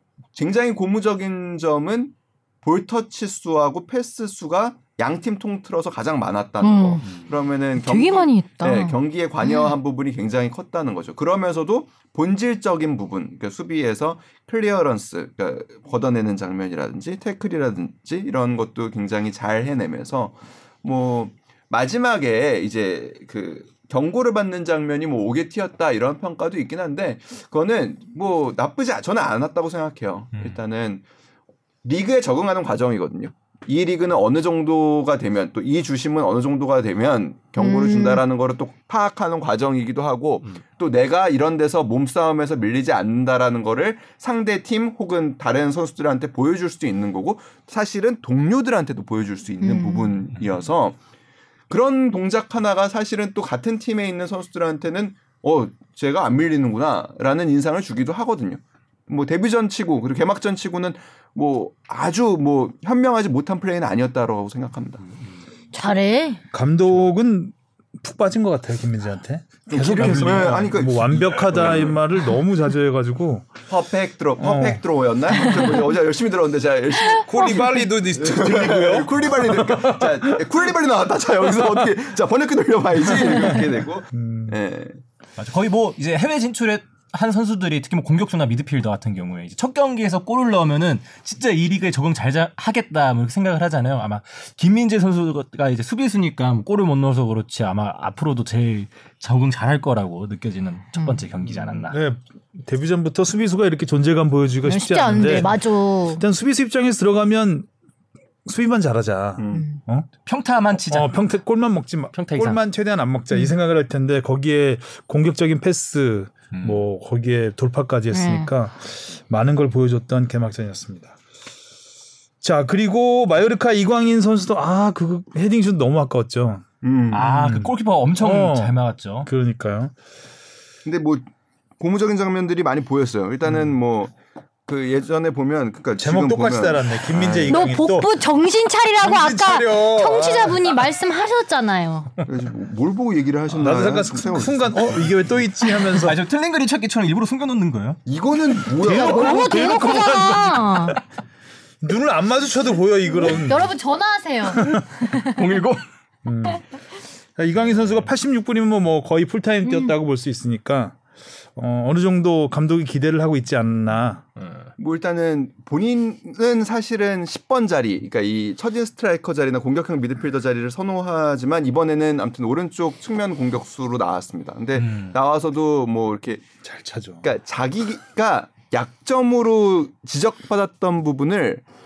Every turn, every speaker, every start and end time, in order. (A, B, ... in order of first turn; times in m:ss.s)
0:00.4-0:31.0 A
0:06.6-0:07.0 B
0:07.8-0:09.7 B
0:31.8-0:51.0 A
0:37.6-0:38.2 B
0:49.6-0:50.2 B
0:51.7-1:05.0 A
1:05.7-1:06.4 B
1:06.5-1:13.6 C
1:09.7-1:12.0 A
1:09.8-1:10.7 D
1:13.7-1:25.0 A
1:14.4-1:14.8 C
1:17.2-1:20.2 C
1:24.1-1:24.6 C
1:25.4-1:42.0 D
1:41.9-1:45.6 C
1:44.6-1:46.2 B
1:46.2-1:47.7 C
1:48.5-1:50.1 C
1:49.4-1:49.6 A
1:49.5-1:49.8 B
1:50.3-1:51.2 D
1:50.9-2:01.2 C
1:52.1-1:52.6 D
1:56.5-1:56.8 D
1:58.1-1:58.5 B
2:02.4-2:06.7 C
2:06.8-2:07.3 A
2:07.1-2:09.3 D
2:07.2-2:08.8 C
2:09.3-2:09.9 C
2:10.8-2:11.2 A
2:11.8-2:14.1 A
2:14.7-2:17.7 A
2:16.0-2:18.1 C
2:17.5-2:22.1 B
2:19.0-2:20.8 C
2:22.3-2:25.2 A
2:23.5-2:26.2 C
2:25.8-2:28.0 D
2:28.1-2:29.7 A
2:28.8-2:31.0 C
2:28.8-2:31.0 B
2:31.8-2:33.7 C
2:33.1-2:35.4 B
2:35.1-2:35.8 D
2:36.2-2:36.7 C
2:37.4-2:41.0 C
2:39.7-2:39.9 B
2:41.6-2:44.2 C
2:44.4-2:44.7 D
2:44.8-2:56.4 A
2:54.8-2:55.1 D
2:56.6-2:57.3 C
2:57.2-3:01.6 A